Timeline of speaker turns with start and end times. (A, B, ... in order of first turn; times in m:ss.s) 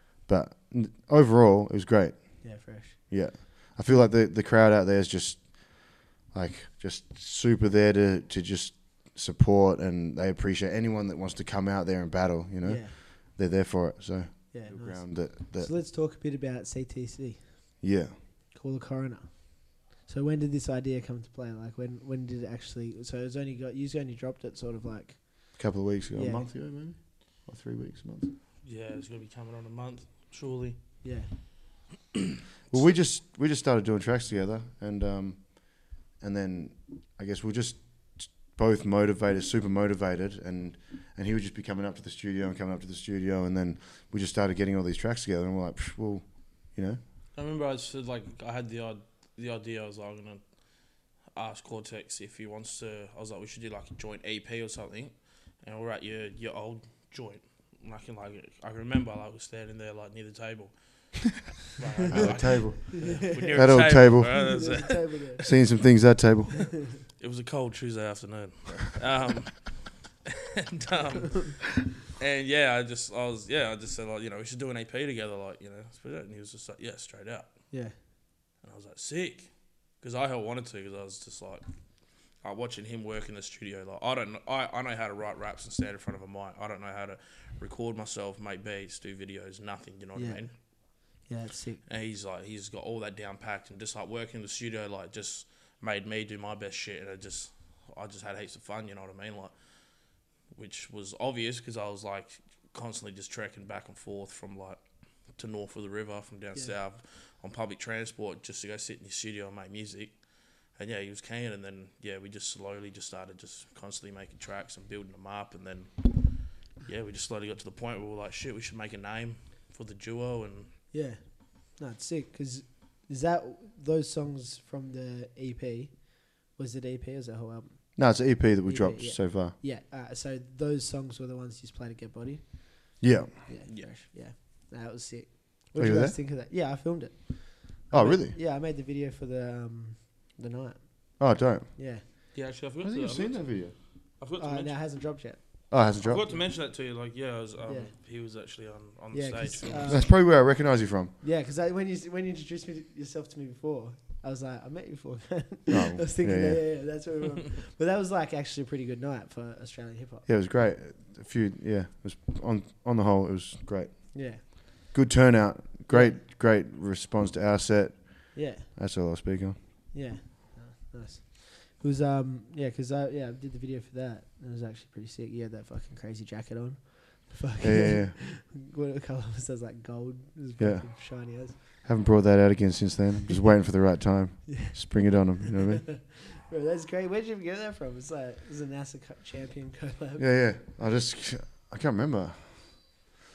0:00.3-0:15.7 A
0:02.4-0:04.0 B
0:12.6-0:13.0 B
0:14.5-0:17.8 B
0:17.8-0:18.2 A
0:18.5-0:26.5 B
0:25.6-0:28.3 A
0:28.6-0:31.0 C
0:31.0-0:31.3 B
0:32.7-0:47.0 A
0:47.3-0:50.5 C
0:51.3-1:05.6 C
1:02.1-1:06.8 A
1:02.2-1:05.5 B
1:07.0-1:17.7 C
1:17.7-1:18.0 B
1:18.6-1:21.6 C
1:22.3-1:30.6 C
1:30.2-1:31.8 B
1:31.9-1:39.6 C
1:40.5-1:44.8 C
1:45.4-1:50.2 C
1:50.7-2:00.8 C
2:00.9-2:22.1 B
2:08.0-2:09.6 A
2:13.0-2:13.4 A
2:15.8-2:16.2 A
2:17.9-2:18.4 A
2:21.2-2:23.8 A
2:22.3-2:24.8 C
2:24.4-2:26.5 B
2:25.7-2:26.3 A
2:26.0-2:30.1 C
2:27.6-2:27.9 B
2:29.1-2:30.1 B
2:29.9-2:31.1 A
2:31.2-2:40.3 B
2:35.7-2:36.8 A
2:40.3-2:49.6 A
2:44.1-2:44.4 B
2:45.9-2:46.2 B
2:48.3-2:48.7 B
2:49.9-3:01.6 B
2:57.6-2:58.2 A
3:00.6-3:05.9 A
3:04.5-3:10.3 B
3:10.2-3:13.0 A